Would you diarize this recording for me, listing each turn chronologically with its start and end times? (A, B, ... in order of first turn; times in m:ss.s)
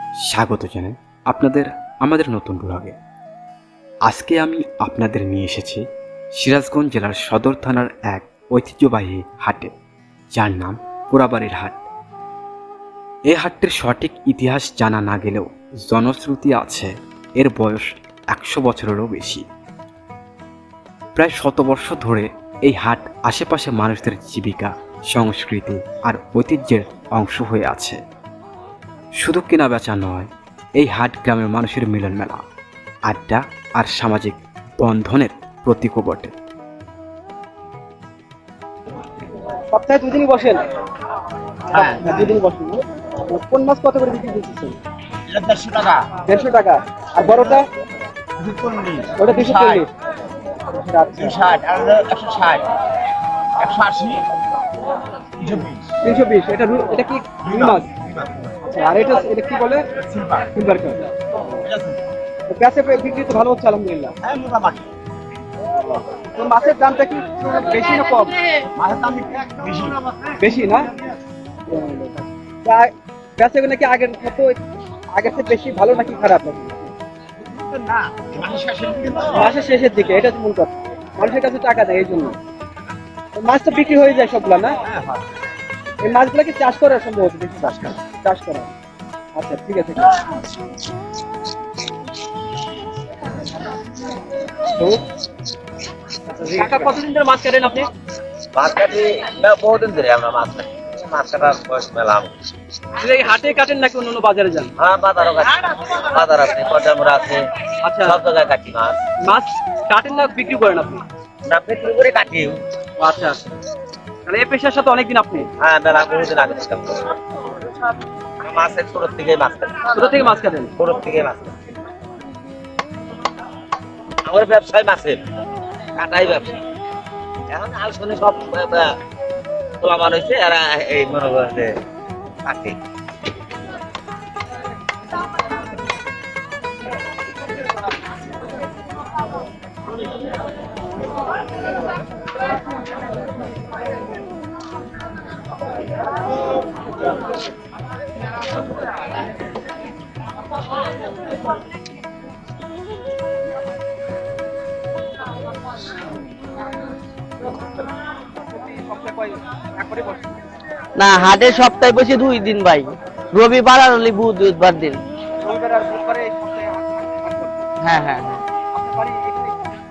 0:00.3-0:03.0 A
0:04.0-0:05.8 A
0:06.4-0:09.7 A
0:10.3-0:11.8 A
0:13.3-0:19.4 A
0:21.2-0:28.0 A
0:29.2-0:32.4 A
0:33.1-0:36.3 A
0:39.7-0:40.6 B
0:41.7-0:44.7 B
0:41.7-0:42.3 C
0:45.3-0:46.1 C
0:46.2-0:47.6 B
0:48.4-0:49.8 C
0:49.2-0:49.9 B
0:50.7-0:51.4 B
0:51.2-0:52.7 C
0:53.6-0:54.2 C
0:55.4-0:55.8 C
0:56.0-0:57.9 B
0:57.4-0:58.5 C
0:58.6-0:59.8 B
1:00.2-1:00.4 C
1:00.5-1:01.0 B
1:01.6-1:02.0 C
1:02.5-1:04.1 B
1:04.2-1:04.8 C
1:05.7-1:08.4 B
1:08.8-1:10.0 C
1:10.4-1:10.9 B
1:11.7-1:14.6 B
1:15.1-1:16.9 B
1:17.4-1:19.5 C
1:19.3-1:22.3 B
1:23.4-1:24.8 B
1:26.0-1:28.7 B
1:29.3-1:30.1 B
1:36.4-1:37.9 B
1:38.5-1:42.3 D
1:43.0-1:44.7 B
1:44.8-1:47.4 D
1:47.8-1:48.2 B
1:48.0-1:49.0 D
1:49.2-1:51.0 B
1:51.5-1:52.6 D
1:53.0-1:53.6 B
1:54.2-1:55.5 B
1:55.6-1:57.2 D
1:58.4-1:59.7 D
1:59.9-2:00.7 B
2:00.8-2:01.5 D
2:04.2-2:05.2 D
2:06.0-2:06.6 D
2:07.5-2:08.9 D
2:09.8-2:11.7 D
2:12.4-2:12.8 D
2:38.3-2:40.4 B
2:41.0-2:45.0 E
2:45.4-2:47.7 B
2:47.8-2:48.4 E
2:48.7-2:49.7 B